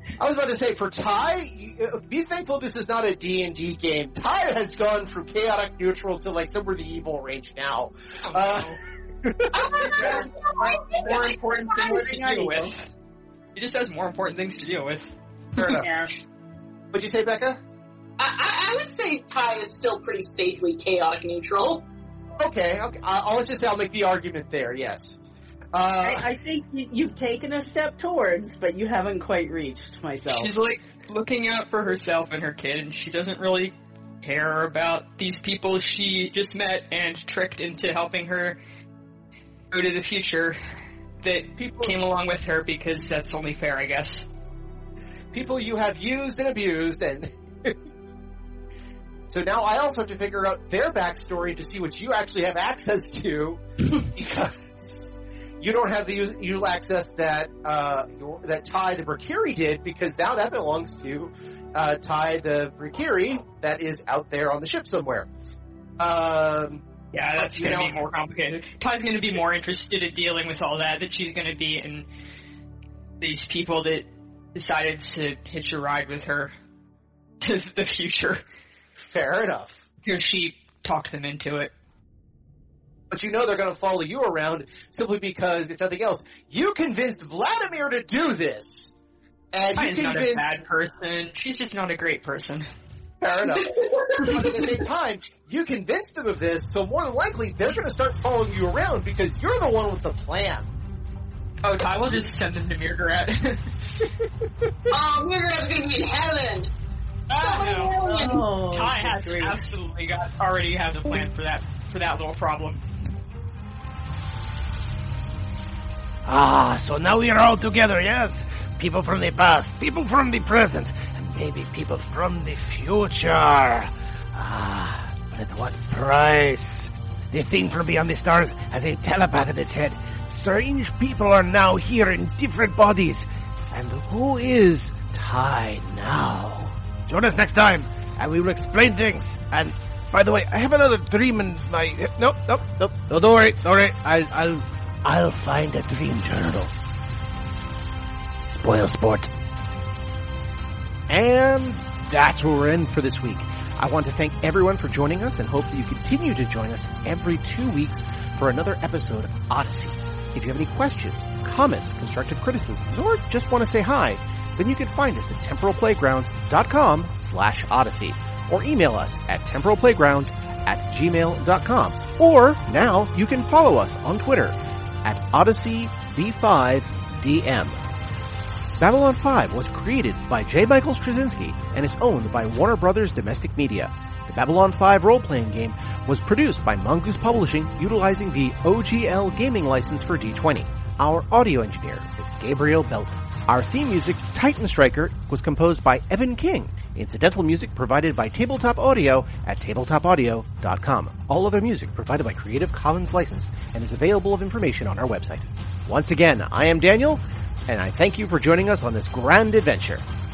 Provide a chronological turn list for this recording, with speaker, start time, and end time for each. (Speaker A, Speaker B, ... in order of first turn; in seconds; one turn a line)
Speaker A: 0.2-9.7
Speaker B: 8.2-8.8
Speaker C: 9.5-11.7
Speaker D: 9.8-12.8
Speaker B: 10.0-12.8
Speaker B: 13.5-15.1
Speaker A: 15.6-15.9
Speaker D: 15.6-16.1
Speaker A: 16.9-17.6
Speaker C: 18.2-21.8
Speaker A: 22.4-25.2
Speaker A: 25.7-26.2
Speaker D: 26.0-30.5
Speaker B: 30.3-38.6
Speaker B: 39.7-40.6
Speaker B: 41.2-44.3
Speaker A: 41.6-42.0
Speaker A: 45.3-47.8
Speaker A: 49.3-65.3
Speaker A: 66.0-66.8
Speaker B: 67.1-72.0
Speaker A: 67.4-68.0
Speaker B: 73.2-76.5
Speaker B: 77.4-78.4
Speaker A: 78.9-79.8
Speaker B: 80.0-81.7
Speaker A: 83.1-88.9
Speaker A: 89.5-90.5
Speaker B: 89.8-92.7
Speaker A: 93.2-100.7
Speaker C: 93.6-94.4
Speaker B: 101.6-103.6
Speaker C: 104.9-106.7
Speaker C: 107.3-108.4
Speaker B: 107.3-108.0
Speaker D: 108.0-109.7
Speaker B: 108.7-112.8
Speaker E: 116.2-146.7
Speaker E: 148.4-149.3
Speaker A: 151.1-177.8
Speaker A: 178.8-210.1